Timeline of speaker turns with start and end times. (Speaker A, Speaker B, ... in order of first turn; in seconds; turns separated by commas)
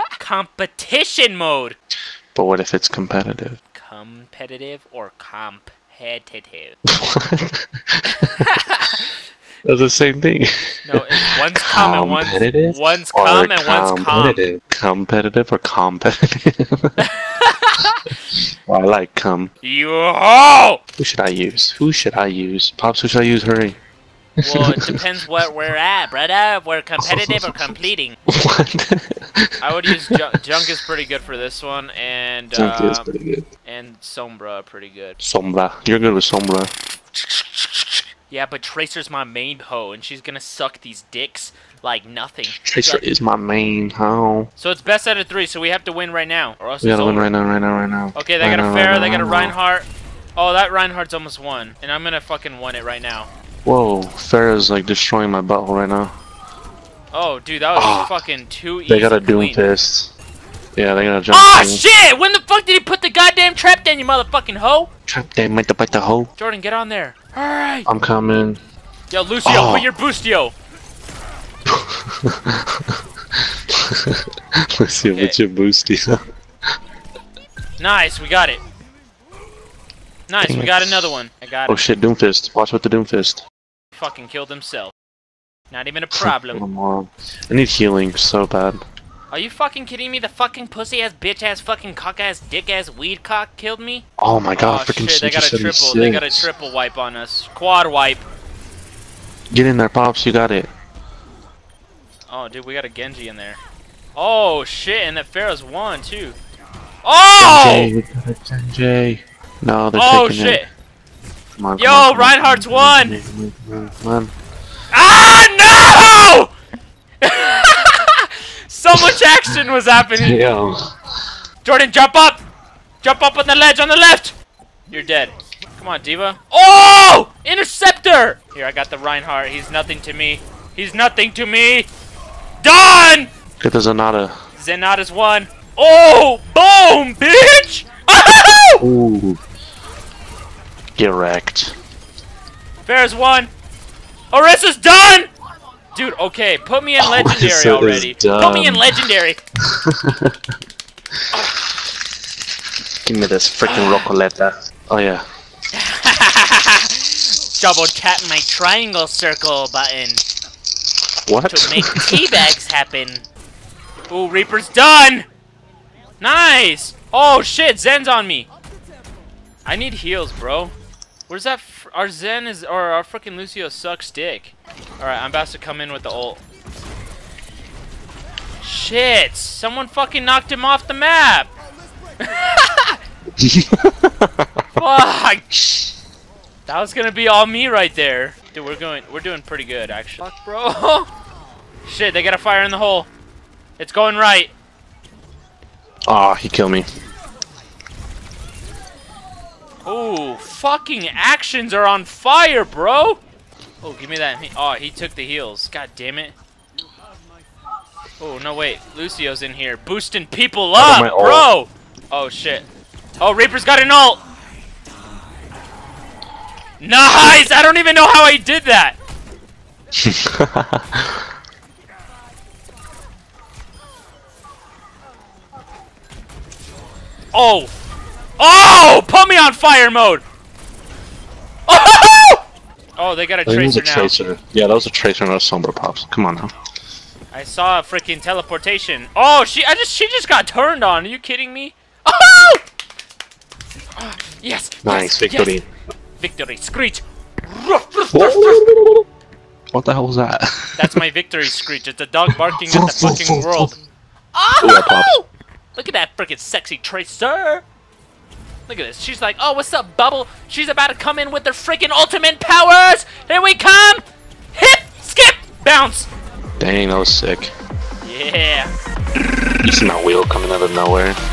Speaker A: 0.2-1.8, Speaker B: 2.3-3.6, Speaker A: 3.7-6.8, Speaker B: 6.9-9.1, Speaker A: 8.2-9.0, Speaker B: 9.6-17.0, Speaker A: 10.8-14.4, Speaker A: 17.0-18.1, Speaker B: 18.3-19.5, Speaker A: 19.6-20.8, Speaker B: 21.0-23.8, Speaker A: 24.4-28.2, Speaker B: 24.4-25.0, Speaker B: 27.0-27.8, Speaker B: 28.3-30.2, Speaker A: 29.6-33.1, Speaker B: 32.5-33.5, Speaker A: 33.6-35.2, Speaker B: 35.2-36.7, Speaker A: 37.1-43.0, Speaker B: 42.5-44.5, Speaker A: 44.6-47.3, Speaker B: 46.8-49.5, Speaker A: 48.1-53.3, Speaker B: 53.6-56.1, Speaker A: 57.1-59.6, Speaker B: 57.7-58.1, Speaker B: 58.9-60.1, Speaker B: 60.8-61.8, Speaker A: 61.3-64.9, Speaker B: 65.1-66.3, Speaker A: 66.4-67.9, Speaker B: 67.8-68.6, Speaker A: 69.1-70.5, Speaker B: 69.4-69.9, Speaker B: 71.7-76.2, Speaker A: 75.1-75.4, Speaker A: 77.8-78.6, Speaker A: 80.3-81.8, Speaker B: 80.4-81.1, Speaker B: 81.7-83.4, Speaker A: 83.9-84.9, Speaker A: 85.7-86.6, Speaker B: 86.1-88.8, Speaker A: 89.3-94.0, Speaker B: 94.2-96.5, Speaker A: 94.6-98.2, Speaker B: 99.5-100.7, Speaker A: 102.3-103.6, Speaker A: 104.2-106.4, Speaker A: 107.0-107.9, Speaker B: 107.4-110.6, Speaker A: 109.9-110.7, Speaker B: 111.6-114.3, Speaker A: 111.8-113.2, Speaker A: 114.9-116.5, Speaker A: 117.2-120.4, Speaker B: 118.9-120.9, Speaker A: 121.6-122.4, Speaker A: 123.0-124.3, Speaker A: 124.9-131.9, Speaker A: 132.6-133.3, Speaker B: 133.6-134.3, Speaker A: 134.6-138.8, Speaker B: 138.8-139.4, Speaker B: 141.0-141.7, Speaker A: 142.8-143.5, Speaker A: 144.3-145.3, Speaker A: 145.9-149.4, Speaker B: 147.0-149.1, Speaker B: 149.6-150.4, Speaker B: 153.0-155.2, Speaker A: 153.6-154.1, Speaker A: 155.7-160.2, Speaker B: 161.3-162.4, Speaker A: 161.5-163.2, Speaker A: 164.1-165.2, Speaker A: 166.2-168.5, Speaker A: 169.6-170.7, Speaker A: 171.3-176.4, Speaker A: 178.6-181.5, Speaker A: 182.2-183.0, Speaker B: 183.4-184.6, Speaker A: 184.8-185.5, Speaker A: 186.7-191.1, Speaker A: 191.8-193.1, Speaker A: 193.8-194.5, Speaker B: 196.1-196.8, Speaker A: 199.8-203.2, Speaker A: 203.8-206.3, Speaker A: 208.2-212.6, Speaker B: 210.8-211.5, Speaker A: 213.2-214.2, Speaker A: 216.8-219.0, Speaker B: 217.1-217.4, Speaker B: 219.9-221.2, Speaker A: 227.3-227.7, Speaker A: 228.4-230.2, Speaker A: 231.7-232.4, Speaker A: 232.9-234.1, Speaker B: 233.4-236.5, Speaker A: 237.3-242.6, Speaker A: 244.0-245.6, Speaker B: 244.8-245.6, Speaker A: 246.2-248.7, Speaker B: 248.1-249.1, Speaker B: 249.7-251.0, Speaker A: 250.8-253.8, Speaker B: 252.3-253.7, Speaker A: 254.3-257.6, Speaker B: 254.6-255.1, Speaker A: 258.7-264.0, Speaker A: 264.5-266.1, Speaker B: 266.6-267.5, Speaker A: 268.0-268.7, Speaker B: 269.6-271.2